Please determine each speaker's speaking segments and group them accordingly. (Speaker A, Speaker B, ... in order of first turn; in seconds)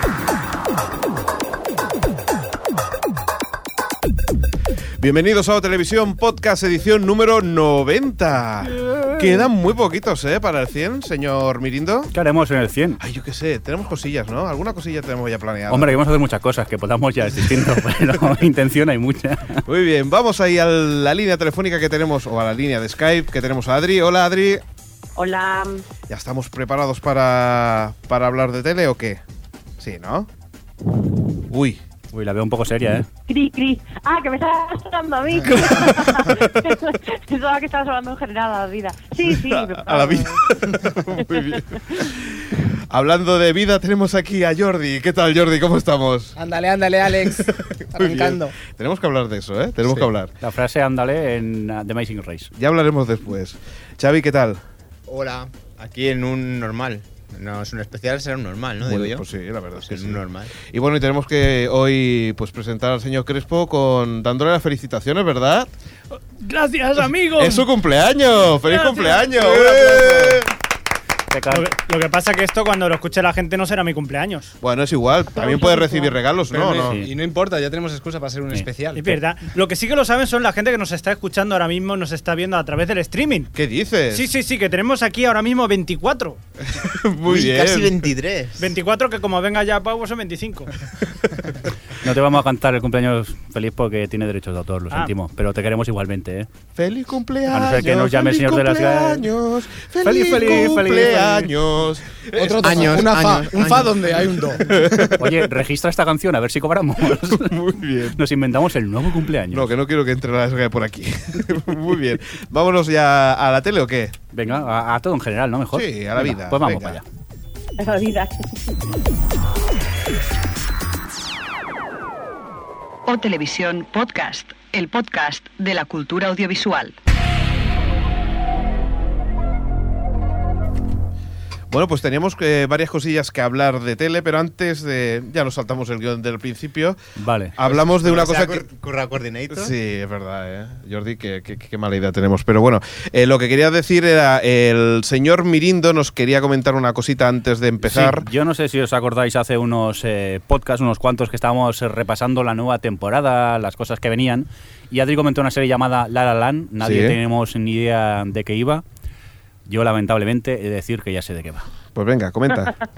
Speaker A: 5.0-12.1, 13.0-15.9, 19.7-24.6, 26.1-29.2, 29.8-30.3, 31.5-31.8, 35.5-36.5, 39.3-46.4, 47.3-50.3, 52.6-54.6, 58.9-60.2, 60.7-65.7, 67.3-70.5, 74.6-77.0, 83.5-84.3, 86.9-88.0, 96.8-103.1, 104.7-105.1, 107.3-108.2, 109.5-114.2, 115.7-117.0, 131.7-137.0, 137.6-138.7, 139.5-148.3, 156.8-157.2, 161.9-162.7
Speaker B: 8.7-9.5, 12.1-13.0, 15.7-19.6, 32.1-33.1, 50.4-52.5, 71.3-71.7, 92.0-96.5, 97.5-99.3, 100.0-101.5, 105.1-107.6, 108.1-109.7, 114.3-117.0, 137.2-137.5, 147.8-158.8, 159.7-161.7
Speaker C: 25.2-25.8, 33.3-40.5, 41.2-41.6, 117.8-118.4
Speaker D: 46.4-48.6, 76.6-79.2, 102.4-105.2
Speaker E: 55.1-59.2, 59.8-60.5, 87.2-88.7, 102.6-103.9, 137.7-139.7
Speaker F: 66.4-67.7, 68.7-70.4, 71.5-74.5, 75.4-76.2, 79.0-83.5, 84.1-86.4, 88.6-90.7
Speaker G: 123.1-127.0